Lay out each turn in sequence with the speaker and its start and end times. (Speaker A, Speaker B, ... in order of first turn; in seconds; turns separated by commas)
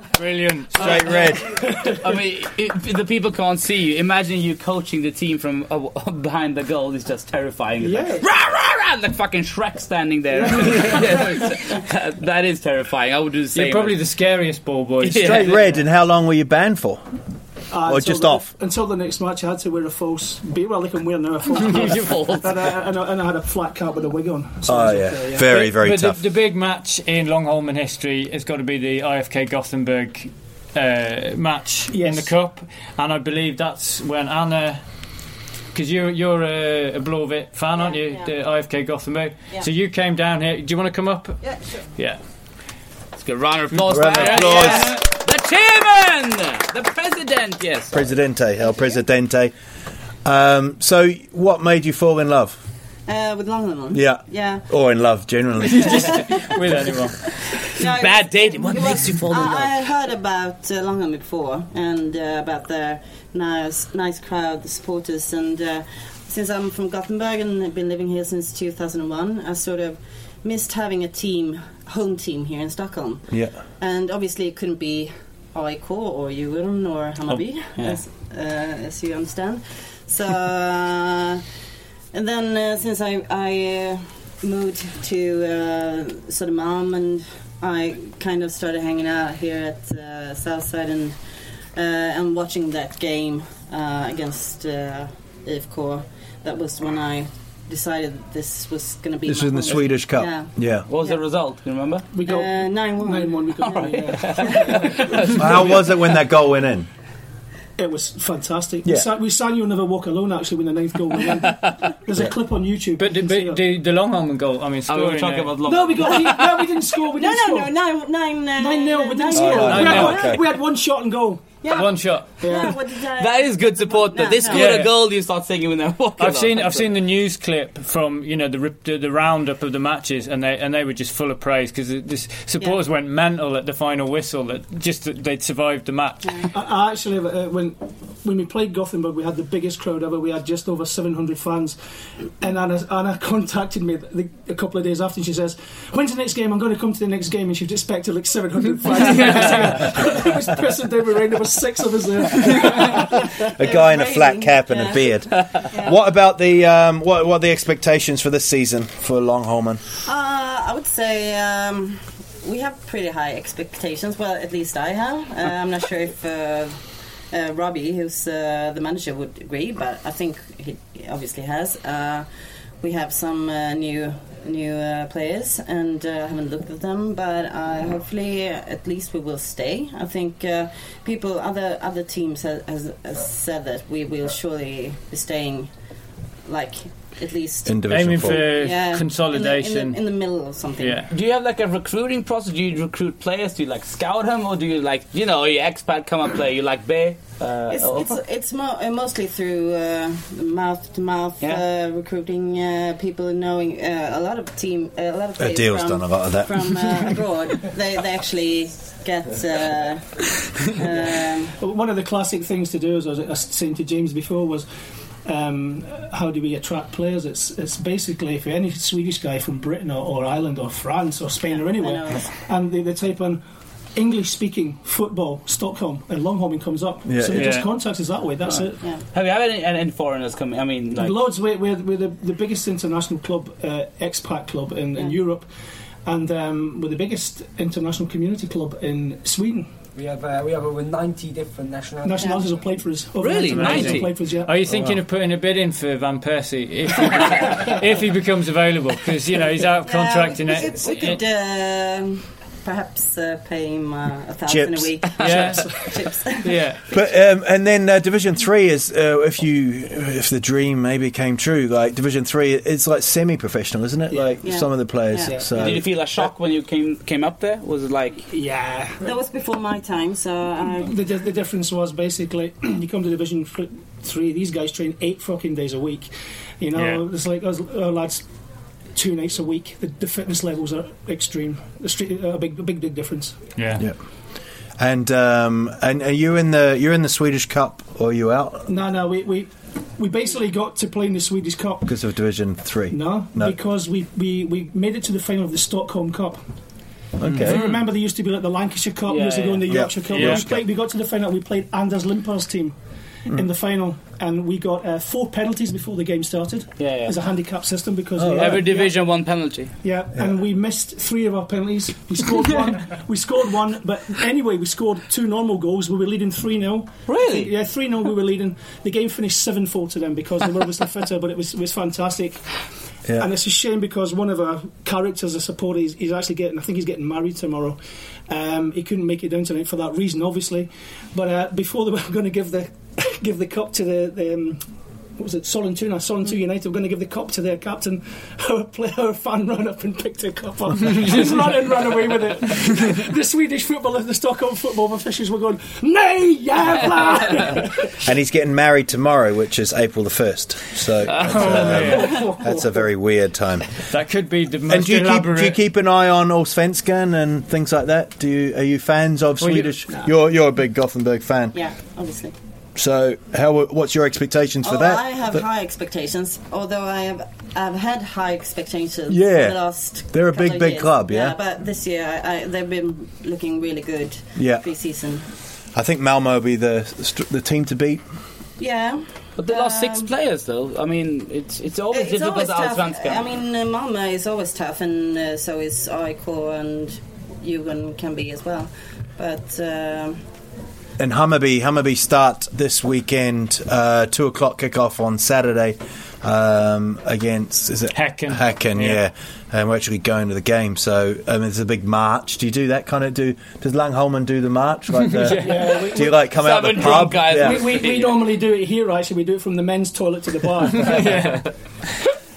Speaker A: 0.1-1.4, Speaker B: 0.7-1.4, Speaker C: 1.7-2.0, Speaker D: 2.0-14.0, Speaker C: 7.8-8.2, Speaker C: 10.4-11.2, Speaker A: 13.5-15.7, Speaker B: 15.0-17.0, Speaker D: 15.0-15.6, Speaker C: 17.7-25.5, Speaker B: 17.9-18.4, Speaker D: 21.6-22.5, Speaker A: 21.7-21.9, Speaker B: 24.7-26.2, Speaker A: 25.4-34.8, Speaker C: 31.9-32.3, Speaker A: 35.7-41.4, Speaker E: 37.8-38.3, Speaker D: 43.2-48.0, Speaker A: 43.7-45.0, Speaker B: 43.9-45.0, Speaker B: 47.9-49.5, Speaker B: 50.2-52.6, Speaker E: 53.1-54.6, Speaker B: 53.9-56.2, Speaker A: 55.6-57.2, Speaker E: 55.8-56.5, Speaker E: 57.6-81.4, Speaker D: 57.8-59.7, Speaker E: 82.1-91.2, Speaker E: 91.7-100.5, Speaker B: 99.2-100.9, Speaker D: 100.9-102.1, Speaker C: 102.1-105.8, Speaker E: 102.2-103.9, Speaker D: 103.7-105.8, Speaker B: 105.3-106.9, Speaker C: 107.8-113.6, Speaker A: 113.0-115.7, Speaker D: 114.9-116.6, Speaker C: 115.6-117.7, Speaker E: 117.1-120.4, Speaker C: 118.6-121.5, Speaker B: 119.3-120.4, Speaker A: 119.7-120.2, Speaker E: 121.6-124.9, Speaker A: 121.7-122.4, Speaker C: 122.4-122.8, Speaker D: 123.2-126.9, Speaker A: 124.5-124.9, Speaker A: 126.2-136.4, Speaker C: 136.5-141.8, Speaker C: 142.4-153.5, Speaker A: 149.1-149.5, Speaker B: 153.5-159.8, Speaker E: 153.6-156.0, Speaker E: 160.1-172.3, Speaker E: 172.8-185.7, Speaker E: 186.4-191.1, Speaker B: 187.7-188.4, Speaker A: 187.9-190.0, Speaker A: 190.8-191.1, Speaker D: 191.1-198.2, Speaker E: 197.7-211.6, Speaker B: 205.4-207.1, Speaker C: 211.6-214.7, Speaker C: 215.2-223.4, Speaker E: 221.5-222.3, Speaker C: 223.9-228.8, Speaker B: 227.1-227.6, Speaker A: 227.3-227.7, Speaker D: 229.1-231.2, Speaker C: 230.9-235.4, Speaker C: 236.1-239.7, Speaker F: 239.9-242.2, Speaker C: 242.0-244.6, Speaker D: 243.2-244.1, Speaker A: 243.4-251.2, Speaker B: 244.7-245.0, Speaker E: 249.8-256.6, Speaker B: 254.5-254.9, Speaker A: 255.2-255.7, Speaker C: 255.4-255.8, Speaker A: 256.4-256.8, Speaker B: 256.9-265.9, Speaker E: 264.4-265.3, Speaker D: 265.6-268.2, Speaker C: 268.3-269.1, Speaker E: 269.0-270.9, Speaker C: 270.8-278.2, Speaker A: 276.7-277.0, Speaker C: 278.9-283.4, Speaker A: 283.6-283.8, Speaker B: 284.8-288.7, Speaker C: 288.7-291.9, Speaker B: 291.9-293.5, Speaker C: 292.9-296.4, Speaker B: 297.2-297.6, Speaker C: 297.3-302.8, Speaker A: 297.5-297.8, Speaker D: 299.1-299.7, Speaker B: 299.7-300.6, Speaker A: 300.1-300.5, Speaker C: 303.3-308.9, Speaker D: 306.8-307.1, Speaker B: 308.2-308.6, Speaker D: 308.3-309.7, Speaker C: 309.8-322.4, Speaker D: 317.1-317.5, Speaker C: 323.1-327.8, Speaker C: 328.3-334.6, Speaker C: 335.2-348.0, Speaker B: 348.0-353.7, Speaker D: 351.1-351.4, Speaker A: 351.2-352.3, Speaker C: 351.8-352.9, Speaker A: 353.9-355.6, Speaker B: 354.7-361.6, Speaker A: 359.4-359.8, Speaker E: 361.5-362.3, Speaker B: 362.8-365.4, Speaker E: 364.6-375.2, Speaker B: 369.1-369.6, Speaker B: 370.1-371.4, Speaker B: 374.4-374.6, Speaker B: 375.7-378.0, Speaker E: 378.6-380.1, Speaker D: 379.4-383.3, Speaker E: 381.9-390.2, Speaker B: 391.0-407.6, Speaker A: 397.9-399.0, Speaker A: 405.0-405.7, Speaker C: 405.3-411.4, Speaker D: 406.2-408.3, Speaker A: 410.8-411.5